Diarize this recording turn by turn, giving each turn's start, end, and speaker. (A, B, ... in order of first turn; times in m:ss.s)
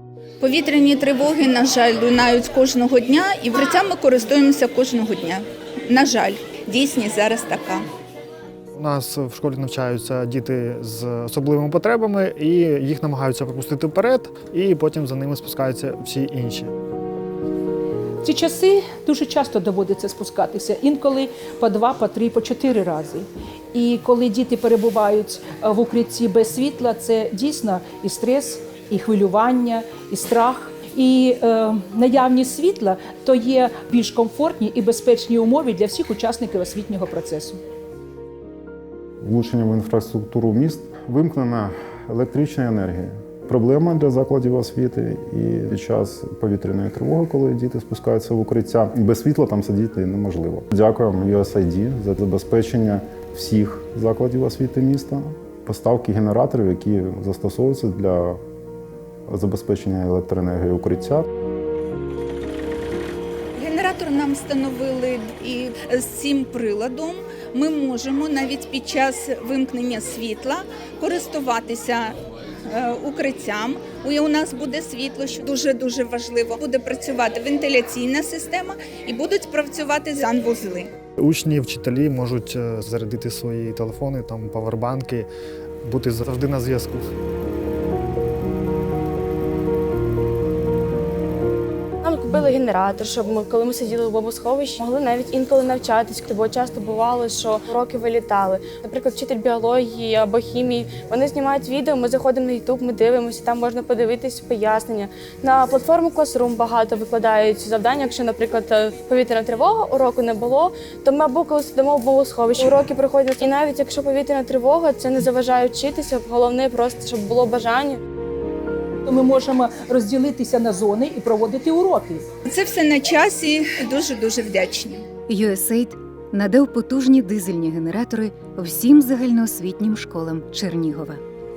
0:00.4-0:07.9 A
0:08.8-0:16.7 B
0:18.2-0:37.6 C
0:39.2-0:58.4 D
0:59.3-1:01.2 D
1:03.6-1:12.1 A
1:12.7-1:20.9 A
1:21.2-1:25.3 B
1:25.8-1:27.1 B
1:32.0-1:58.0 E
1:59.1-2:02.2 C
2:02.5-2:05.0 A
2:05.3-2:11.2 F